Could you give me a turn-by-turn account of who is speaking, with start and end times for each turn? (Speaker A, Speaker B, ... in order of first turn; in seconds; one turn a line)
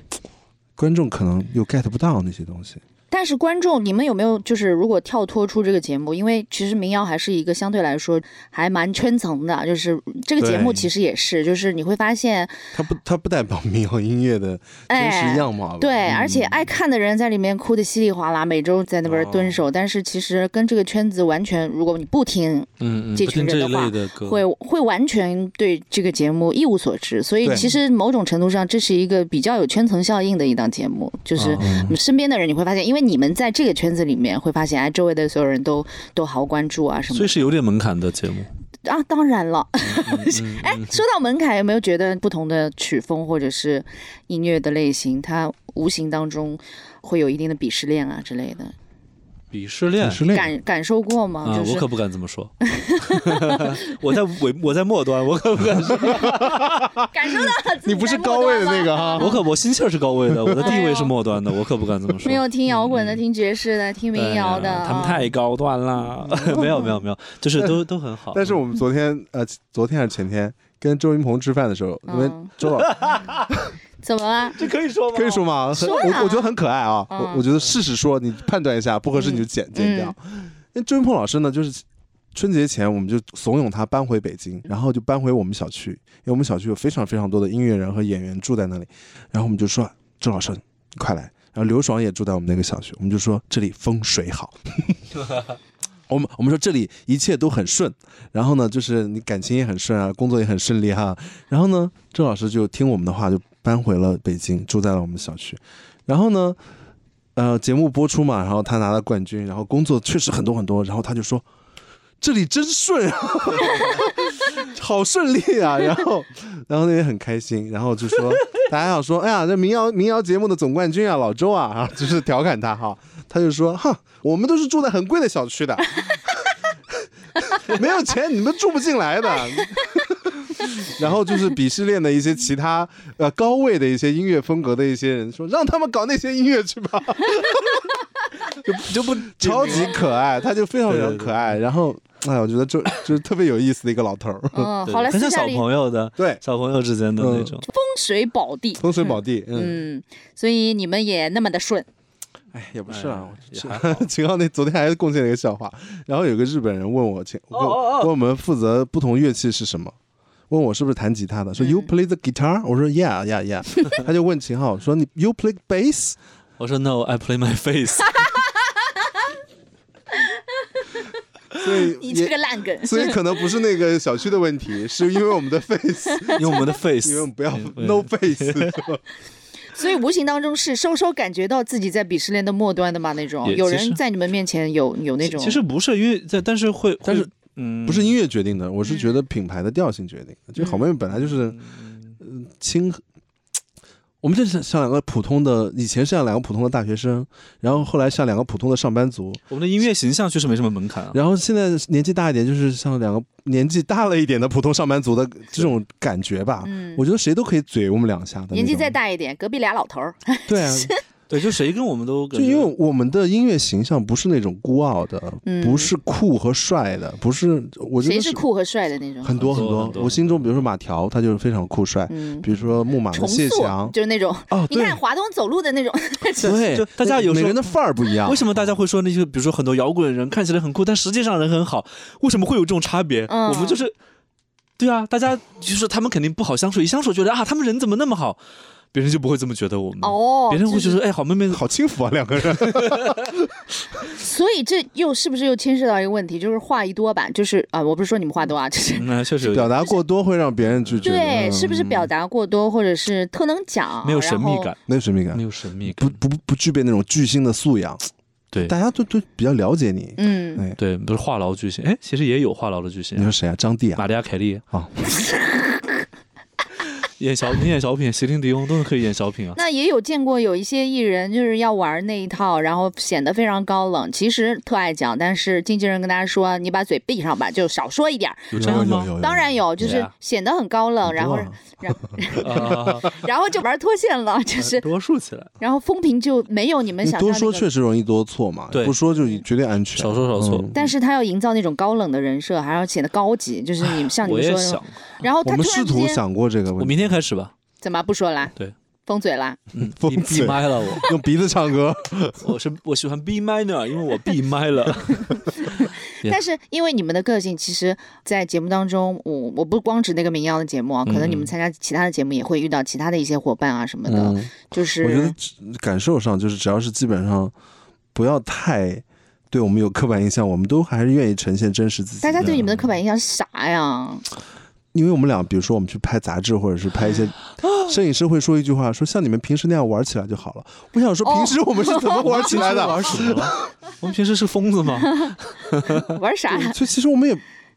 Speaker A: 0.8-2.8
Speaker B: 3.1-12.6
Speaker A: 10.4-10.9
Speaker A: 12.7-16.4
Speaker B: 14.9-37.5
Speaker C: 16.1-16.5
Speaker C: 19.1-19.6
Speaker C: 22.8-24.4
Speaker A: 27.4-27.7
Speaker C: 31.4-31.9
Speaker A: 31.6-31.9
Speaker C: 37.1-38.5
Speaker B: 38.9-48.7
Speaker C: 39.9-41.0
Speaker C: 49.5-50.2
Speaker A: 50.0-50.5
Speaker B: 50.3-51.9
Speaker C: 51.4-56.9
Speaker B: 52.7-53.8
Speaker A: 56.0-59.4
Speaker B: 57.1-59.4
Speaker C: 59.2-63.2
Speaker A: 60.3-60.7
Speaker B: 60.6-61.1
Speaker B: 62.2-65.3
Speaker C: 64.1-68.6
Speaker A: 66.2-66.7
Speaker B: 66.5-67.0
Speaker A: 67.6-67.8
Speaker A: 68.3-72.9
Speaker B: 72.1-72.5
Speaker C: 72.7-73.5
Speaker B: 74.0-74.6
Speaker C: 74.6-75.5
Speaker A: 75.1-95.0
Speaker B: 75.7-76.5
Speaker B: 77.1-77.4
Speaker B: 79.2-80.1
Speaker A: 96.1-106.6
Speaker A: 107.4-111.5
Speaker A: 112.2-126.3
Speaker A: 126.9-137.9
Speaker C: 138.6-140.0
Speaker A: 138.8-144.7
Speaker C: 140.9-141.6
Speaker B: 144.5-145.7
Speaker C: 144.8-147.7
Speaker A: 147.2-147.6
Speaker B: 147.7-151.9
Speaker A: 148.8-149.8
Speaker A: 152.5-159.9
Speaker C: 152.9-154.1
Speaker C: 157.5-158.1
Speaker A: 160.5-166.2
Speaker B: 161.6-161.9
Speaker C: 166.6-168.3
Speaker B: 168.2-169.1
Speaker B: 170.1-170.4
Speaker A: 171.6-179.0
Speaker B: 171.6-173.2
Speaker B: 176.3-176.6
Speaker C: 176.3-178.8
Speaker B: 179.7-185.6
Speaker C: 183.4-184.0
Speaker C: 185.2-188.2
Speaker A: 187.1-187.3
Speaker A: 187.8-191.6
Speaker B: 188.9-189.1
Speaker B: 190.6-190.9
Speaker C: 191.2-192.2
Speaker A: 192.2-193.0
Speaker A: 194.2-199.4
Speaker C: 199.5-201.2
Speaker A: 201.1-208.9
Speaker B: 206.6-207.0
Speaker B: 208.5-211.0
Speaker A: 210.5-210.9
Speaker C: 211.3-212.7
Speaker A: 212.3-218.4
Speaker B: 215.4-215.9
Speaker B: 218.0-219.4
Speaker A: 219.2-223.9
Speaker C: 219.3-220.4
Speaker B: 222.1-222.4
Speaker B: 223.1-226.6
Speaker A: 224.5-225.0
Speaker A: 226.4-228.7
Speaker C: 226.4-227.6
Speaker C: 228.2-233.9
Speaker B: 233.3-233.8
Speaker C: 234.8-238.4
Speaker C: 238.9-241.6
Speaker B: 240.0-241.0
Speaker A: 241.5-244.1
Speaker C: 242.7-243.2
Speaker B: 244.1-249.1
Speaker C: 248.9-249.7
Speaker A: 249.4-252.1
Speaker C: 250.8-251.1
Speaker B: 251.0-254.7
Speaker C: 254.0-254.8
Speaker A: 254.9-258.1
Speaker C: 255.3-256.2
Speaker A: 258.6-260.8
Speaker B: 260.2-260.6
Speaker C: 260.8-263.3
Speaker A: 263.1-264.0
Speaker C: 263.9-264.6
Speaker A: 264.7-265.1
Speaker C: 267.1-269.6
Speaker B: 269.6-284.9
Speaker C: 278.5-279.1
Speaker A: 278.6-280.0
Speaker C: 279.8-280.1
Speaker A: 281.0-283.0
Speaker C: 282.4-283.1
Speaker C: 284.6-285.5
Speaker B: 285.6-287.6
Speaker A: 287.0-290.7
Speaker C: 288.7-289.0
Speaker C: 289.9-290.9
Speaker B: 290.7-296.2
Speaker C: 293.9-295.0
Speaker A: 295.4-297.1
Speaker C: 296.8-297.5
Speaker B: 297.8-298.5
Speaker B: 299.1-299.6
Speaker C: 299.7-301.1
Speaker A: 299.8-302.5
Speaker C: 302.4-306.4
Speaker B: 305.8-315.4
Speaker C: 311.1-311.5
Speaker A: 314.1-317.5
Speaker A: 318.1-322.8
Speaker B: 322.2-324.2
Speaker A: 324.9-333.6
Speaker B: 331.2-332.5
Speaker C: 332.1-336.2
Speaker B: 335.9-336.8
Speaker A: 336.5-337.4